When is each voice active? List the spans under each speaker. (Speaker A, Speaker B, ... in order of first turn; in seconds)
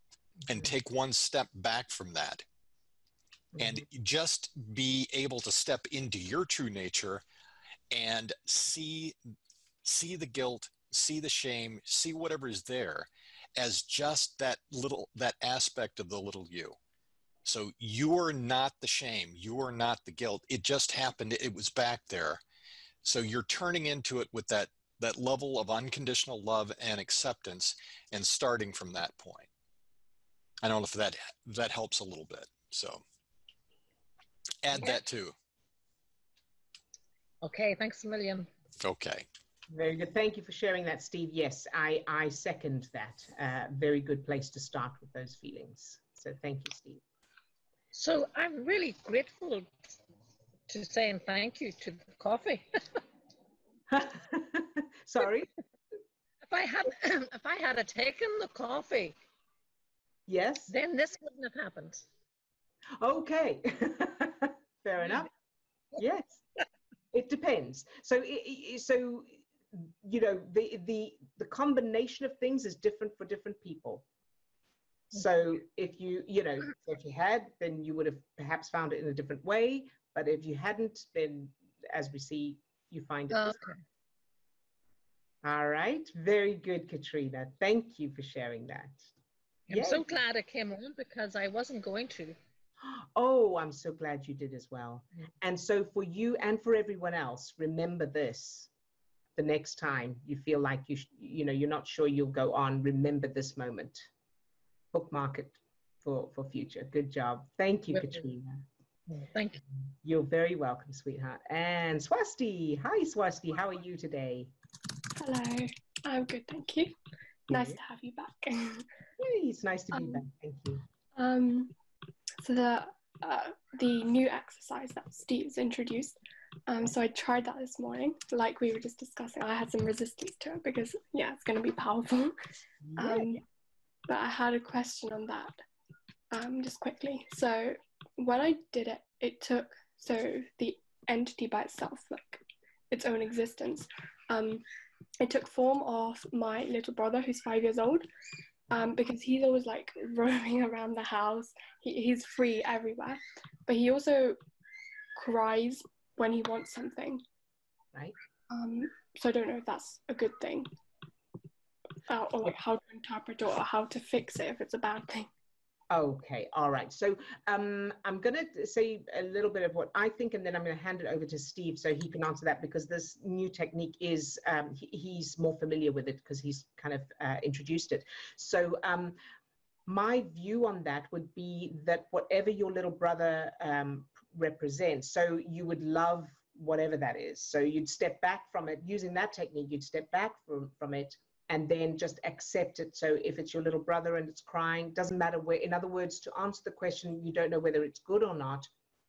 Speaker A: 0.5-2.4, 3.6-7.2, 7.9-9.2, 9.8-16.8, 17.4-22.4, 23.0-29.5, 30.6-33.0, 34.6-35.3, 38.8-39.3
Speaker B: 3.6-3.8, 39.7-47.0, 53.9-55.5, 60.3-60.7, 63.0-65.3, 66.0-66.4, 67.1-74.0, 75.1-83.7, 85.4-89.1, 89.7-90.1, 92.8-98.7, 99.4-104.1, 104.9-108.7, 110.0-114.5, 117.5-117.8, 119.2-120.8, 132.8-133.4, 165.9-179.2, 179.9-198.7
Speaker C: 37.4-38.5, 47.9-49.9, 50.7-53.0, 56.5-59.1, 60.7-62.1, 83.3-83.8, 89.7-92.4, 109.1-109.6
Speaker D: 115.2-117.0, 117.5-118.9, 120.0-120.2, 121.2-121.8, 122.4-132.4, 133.0-133.4, 134.1-135.6, 136.3-144.7, 145.2-148.1, 148.7-154.4, 155.2-157.2, 158.5-160.7, 162.1-165.3